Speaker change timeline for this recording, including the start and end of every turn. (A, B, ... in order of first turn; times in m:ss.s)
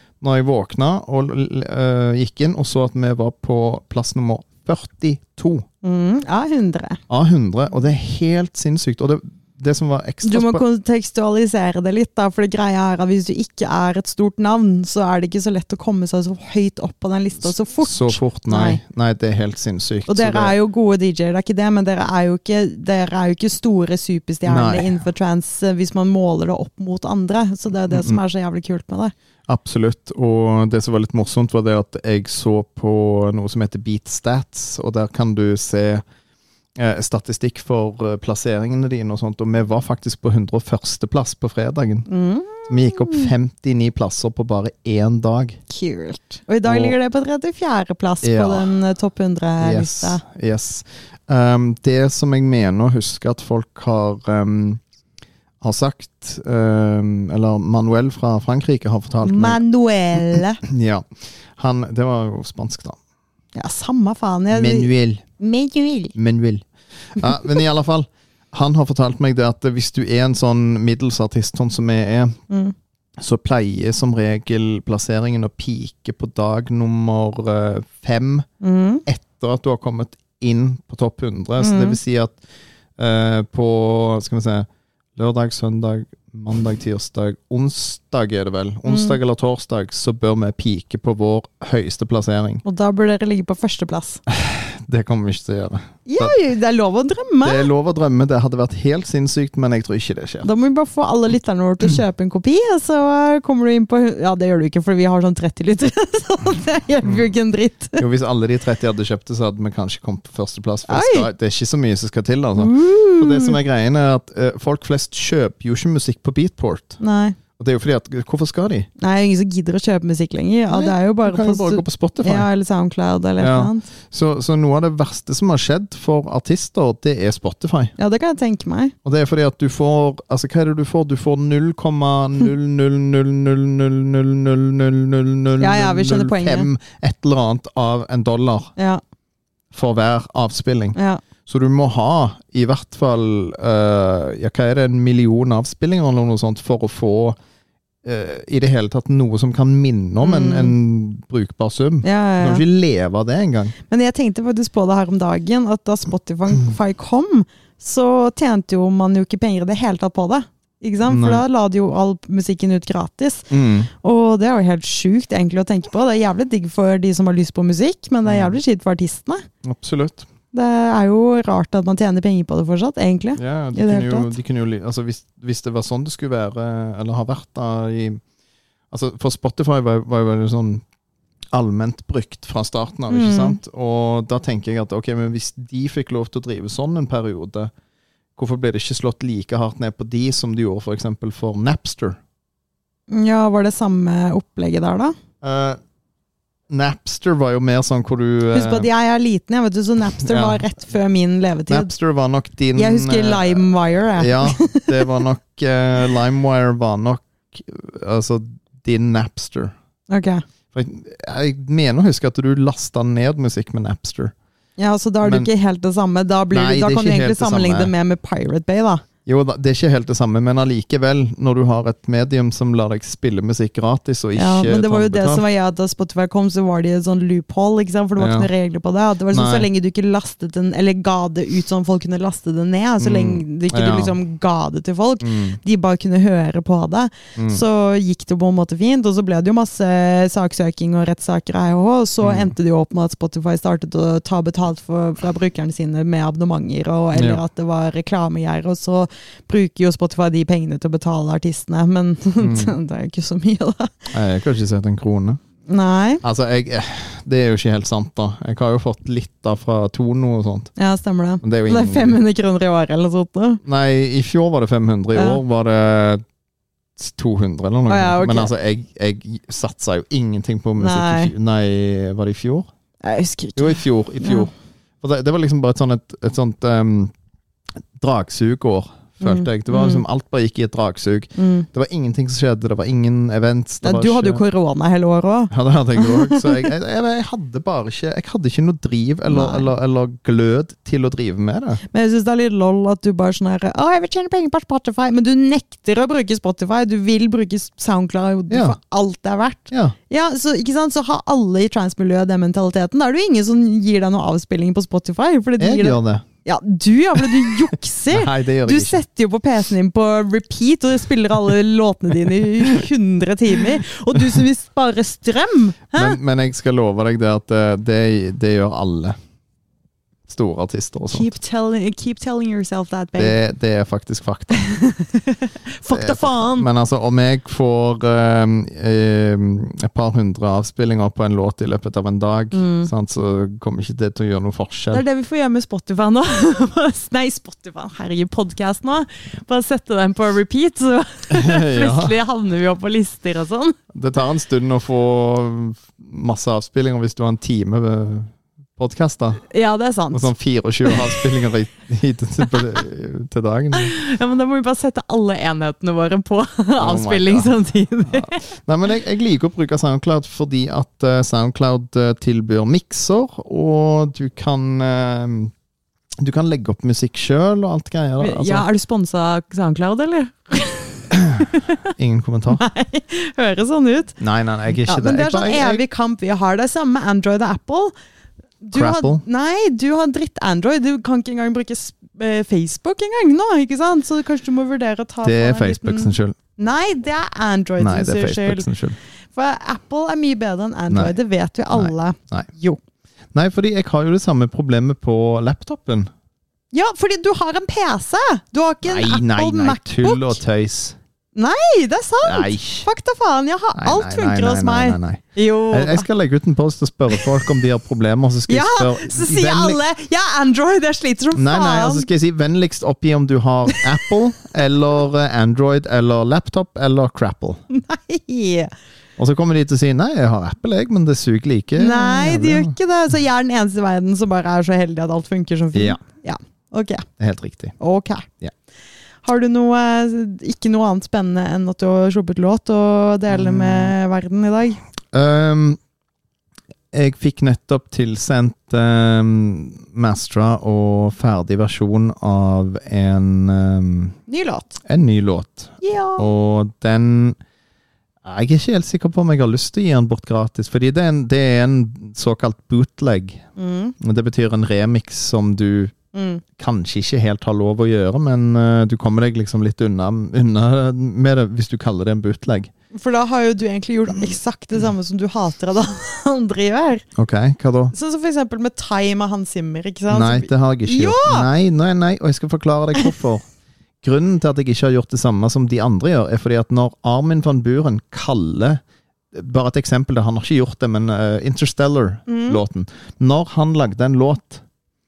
0:00.2-0:05.6 A
0:05.8-0:07.0 B
0:07.1-0:10.6 A
0:10.2-0:18.8 B
0:17.4-0:20.5 A
0:20.1-0:29.1 B
0:24.4-0:25.0 A
0:27.9-0:28.2 A
0:29.5-0:36.0 A
0:36.8-0:42.1 A
0:42.1-0:43.3 B
0:42.7-0:45.6 A
0:45.7-0:50.2 B
0:46.6-0:47.0 A
0:48.2-0:48.7 A
0:49.6-0:54.8 A
0:55.6-0:59.6 A
0:59.2-1:00.6 B
1:00.3-1:01.0 A
1:01.6-1:03.0 A
1:03.5-1:06.1 B
1:04.5-1:05.2 A
1:06.1-1:12.4 A
1:13.2-1:18.4 A
1:18.6-1:19.0 B
1:19.0-1:22.4 A
1:21.6-1:22.0 B
1:23.0-1:32.6 A
1:28.9-1:29.2 B
1:32.6-1:34.2 B
1:34.3-1:36.4 A
1:36.0-1:37.7 B
1:37.4-1:40.5 A
1:40.4-1:48.0 B
1:47.0-1:47.3 A
1:48.0-1:57.0 A
1:50.9-1:51.3 B
1:52.6-1:53.6 B
1:57.0-1:57.4 B
1:57.6-1:58.9 A
1:59.0-2:03.9 B
2:00.7-2:02.5 A
2:03.4-2:07.9 A
2:08.0-2:08.9 B
2:09.0-2:18.7 A
2:15.6-2:16.7 B
2:19.7-2:27.4 A
2:20.9-2:21.2 B
2:28.0-2:33.7 A
2:30.2-2:30.8 B
2:32.0-2:32.6 B
2:33.9-2:49.4 B
2:41.1-2:41.4 A
2:43.5-2:43.9 A
2:48.2-2:48.6 A
2:49.6-2:50.3 A
2:50.5-2:54.3 B
2:53.4-2:58.2 A
2:58.9-3:00.8 A
3:01.5-3:07.7 A
3:03.1-3:03.6 B
3:08.4-3:12.2 A
3:13.1-3:15.1 B
3:15.4-3:15.8 A
3:16.7-3:18.9 A
3:18.5-3:21.9 B
3:20.2-3:20.6 A
3:21.7-3:29.7 A
3:22.7-3:25.1 B
3:30.1-3:30.4 B
3:30.7-3:34.3 A
3:34.8-3:39.0 B
3:35.2-3:35.5 A
3:36.5-3:37.9 A
3:39.2-3:45.4 A
3:44.4-4:14.1 B
3:48.2-3:48.5 A
3:49.3-3:49.7 A
3:53.0-3:54.1 A
3:55.2-3:55.6 A
3:57.4-3:57.6 A
4:02.2-4:02.5 A
4:07.1-4:07.4 A
4:12.4-4:12.7 A
4:14.1-4:15.4 A
4:15.7-4:16.2 B
4:16.2-4:20.7 A
4:20.8-4:23.6 B
4:21.4-4:22.2 A
4:23.6-4:26.2 A
4:25.1-4:25.4 B
4:27.0-4:32.7 A
4:27.9-4:28.5 B
4:30.8-4:31.3 B
4:33.0-4:34.5 B
4:33.6-4:34.5 A
4:35.0-4:37.1 A
4:38.0-4:44.4 A
4:39.2-4:40.0 B
4:41.4-4:41.7 B
4:43.8-4:46.7 B
4:45.5-4:51.8 A
4:49.3-4:49.7 B
4:51.9-5:16.2 B
4:58.5-4:58.8 A
4:59.7-5:00.0 A
5:05.6-5:06.2 A
5:08.1-5:09.0 A
5:15.9-5:19.2 A
5:20.3-5:21.3 A
5:21.0-5:23.4 B
5:23.2-5:24.7 A
5:24.5-5:26.7 B
5:25.9-5:35.0 A
5:32.5-5:32.9 B
5:34.9-5:43.8 B
5:41.3-5:42.2 A
5:43.9-5:49.4 A
5:49.5-5:50.3 B
5:50.1-5:53.9 A
5:50.8-5:51.2 B
5:53.7-5:58.4 B
5:56.8-5:57.5 A
5:58.0-6:05.5 A
6:06.2-6:08.6 A
6:08.2-6:11.9 B
6:11.1-6:12.6 A
6:12.5-6:14.2 B
6:14.2-6:15.8 A
6:14.8-6:17.9 B
6:18.6-6:28.7 B
6:18.7-6:19.2 A
6:25.2-6:26.4 A
6:27.8-6:29.0 A
6:29.3-6:32.8 B
6:31.7-6:32.5 A
6:33.3-6:36.1 A
6:36.7-6:40.4 B
6:38.8-6:41.0 A
6:41.4-6:46.1 B
6:42.2-6:42.9 A
6:43.7-6:49.8 A
6:48.5-6:52.1 B
6:51.3-6:57.6 A
6:57.7-6:58.7 B
6:59.2-7:02.7 A
7:01.8-7:07.1 B
7:05.7-7:06.0 A
7:07.2-7:07.7 A
7:07.8-7:08.3 B
7:09.2-7:14.8 B
7:13.3-7:13.9 A
7:15.1-7:15.8 A
7:16.9-7:24.2 A
7:24.3-7:24.8 B
7:24.8-7:27.4 A
7:25.8-7:26.2 B
7:28.2-7:33.4 A
7:33.6-7:34.0 B
7:34.0-7:35.9 A
7:36.1-7:36.4 B
7:36.6-7:42.7 A
7:42.9-7:47.0 B
7:47.1-7:47.9 A
7:47.9-7:51.5 B
7:50.1-7:53.4 A
7:54.0-7:58.8 A
7:59.3-8:04.6 A
8:02.3-8:02.6 B